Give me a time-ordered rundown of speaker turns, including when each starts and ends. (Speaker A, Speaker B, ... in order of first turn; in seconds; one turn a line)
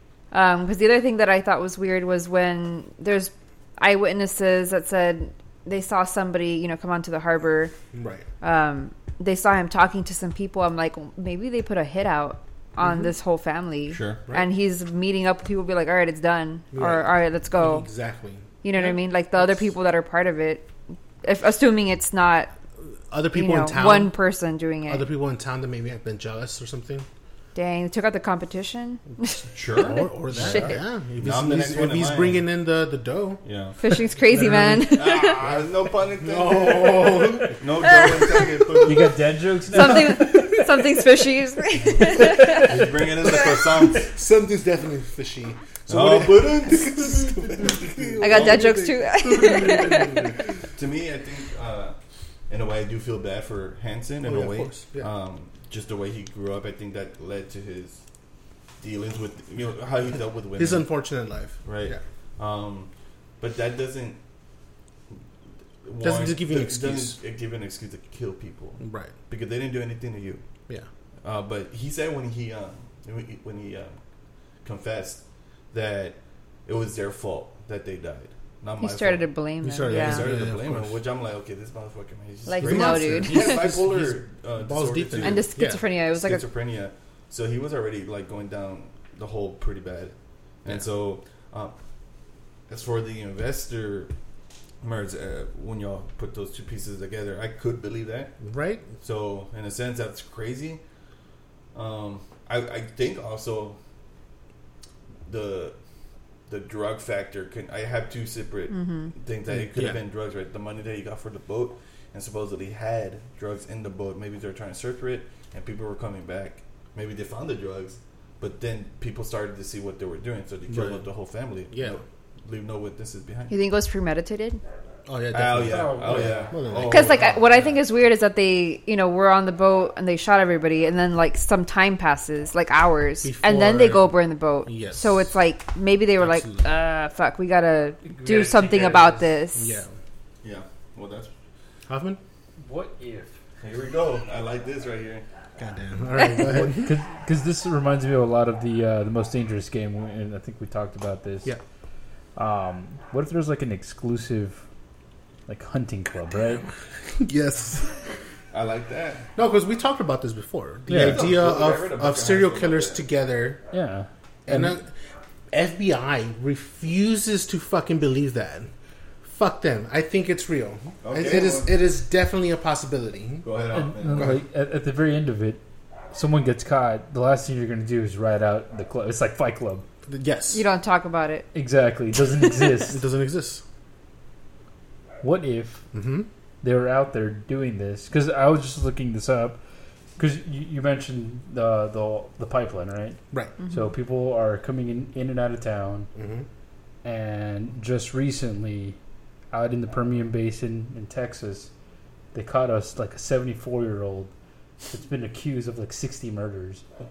Speaker A: 0.3-7.7
Speaker B: 7.9-8.3
Speaker A: 8.4-17.9
Speaker B: 12.8-13.1
Speaker C: 13.9-14.2
Speaker B: 16.7-19.0
Speaker A: 18.6-20.7
Speaker A: 21.2-22.5
Speaker B: 23.1-24.2
Speaker A: 23.3-25.1
Speaker B: 24.9-27.1
Speaker A: 27.6-29.5
Speaker C: 29.5-30.1
Speaker B: 29.9-33.4
Speaker D: 30.3-30.8
Speaker A: 30.3-30.8
Speaker C: 31.2-32.4
Speaker C: 33.4-33.8
Speaker A: 33.8-35.5
Speaker B: 34.3-34.9
Speaker D: 34.4-34.8
Speaker C: 34.9-39.2
Speaker B: 35.4-35.7
Speaker B: 36.2-38.0
Speaker A: 37.8-38.9
Speaker D: 38.8-41.0
Speaker A: 39.7-43.5
Speaker D: 42.1-42.7
Speaker C: 42.5-44.1
Speaker B: 43.4-50.5
Speaker C: 45.9-52.0
Speaker A: 48.2-50.3
Speaker C: 52.5-58.0
Speaker B: 54.2-55.1
Speaker C: 58.8-60.9
Speaker B: 60.6-62.0
Speaker C: 61.6-64.2
Speaker C: 65.8-70.4
Speaker B: 66.0-67.2
Speaker B: 68.8-69.1
Speaker C: 71.2-74.0
Speaker C: 74.6-79.3
Speaker A: 78.8-80.3
Speaker B: 79.6-81.0
Speaker C: 79.8-85.5
Speaker A: 82.5-83.6
Speaker B: 82.6-85.8
Speaker A: 85.2-86.4
Speaker C: 86.1-91.7
Speaker C: 92.7-94.1
Speaker C: 94.8-98.3
Speaker B: 98.4-98.8
Speaker C: 99.0-100.8
Speaker C: 101.7-103.8
Speaker C: 105.3-105.8
Speaker C: 106.5-123.5
Speaker A: 108.7-109.1
Speaker B: 109.5-110.0
Speaker B: 120.7-121.0
Speaker B: 121.7-122.0
Speaker A: 123.5-124.6
Speaker B: 125.0-127.5
Speaker C: 125.3-127.4
Speaker D: 125.7-126.5
Speaker A: 126.9-139.8
Speaker B: 133.2-135.3
Speaker B: 136.2-136.7
Speaker D: 138.1-139.4
Speaker B: 139.6-139.9
Speaker C: 140.4-141.3
Speaker B: 141.9-142.2
Speaker D: 142.6-143.4
Speaker C: 143.6-145.2
Speaker B: 145.6-146.9
Speaker D: 146.4-151.5
Speaker D: 152.4-154.6
Speaker D: 155.5-156.7
Speaker B: 157.2-157.9
Speaker C: 158.5-159.3
Speaker B: 159.4-163.6
Speaker D: 160.9-161.4
Speaker C: 160.9-163.0
Speaker D: 163.7-164.8
Speaker B: 164.5-164.9
Speaker B: 165.5-168.7
Speaker B: 169.2-173.4
Speaker C: 171.0-171.7
Speaker C: 173.4-174.4
Speaker D: 173.7-175.6
Speaker B: 174.2-174.4
Speaker D: 176.1-179.8
Speaker B: 180.1-180.6
Speaker A: 180.5-181.5
Speaker D: 181.6-183.0
Speaker B: 182.9-183.6
Speaker D: 185.2-185.9
Speaker B: 185.9-186.3
Speaker D: 186.6-189.6
Speaker D: 190.2-193.2
Speaker A: 193.6-193.9
Speaker D: 193.7-196.1
Speaker B: 196.1-196.4
Speaker D: 197.0-199.0
Speaker D: 199.5-201.7
Speaker D: 202.3-204.3
Speaker D: 204.9-206.8